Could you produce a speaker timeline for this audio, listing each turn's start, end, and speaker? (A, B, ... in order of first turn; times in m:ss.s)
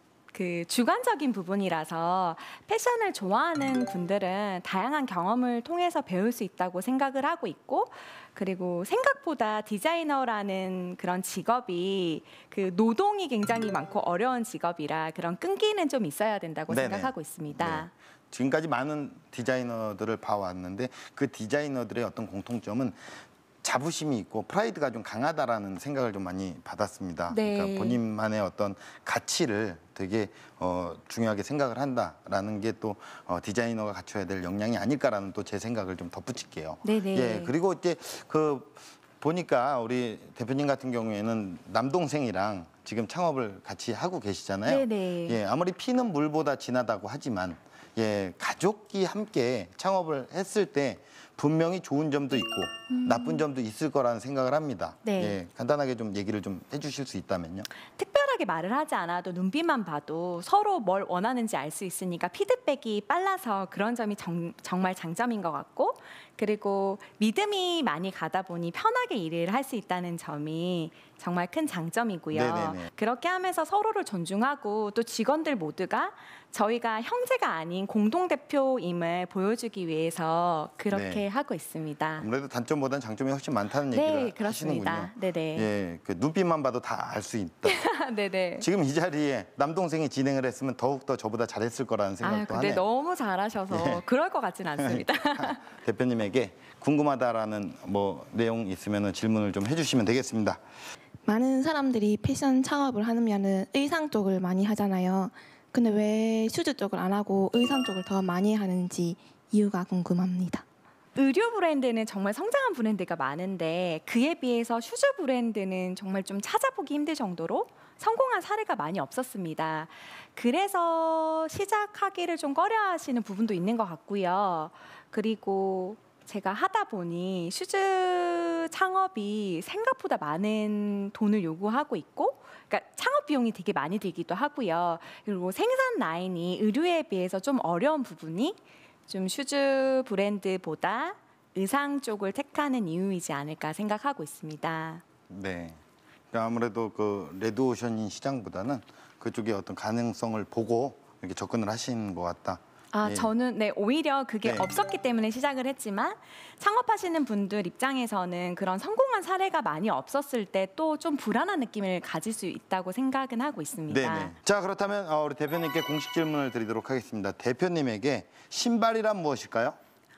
0:00.3-0:17.9 A
0:16.7-0:23.0 B
0:23.6-0:57.7 B
0:27.3-0:28.0 A
0:36.8-0:37.5 A
0:44.7-0:45.4 A
0:52.9-0:53.4 A
0:55.0-0:55.4 A
0:58.0-1:22.3 A
1:12.3-1:12.9 B
1:20.9-1:21.3 B
1:22.2-1:27.9 B
1:23.9-1:25.7 A
1:27.6-1:28.7 A
1:28.6-1:32.8 B
1:32.2-1:35.6 A
1:33.7-1:34.0 B
1:34.8-1:40.6 B
1:41.2-1:50.6 C
1:51.2-2:25.0 A
2:25.3-2:25.8 B
2:26.3-2:33.3 B
2:32.9-2:44.3 A
2:34.4-2:34.7 B
2:43.9-2:49.8 B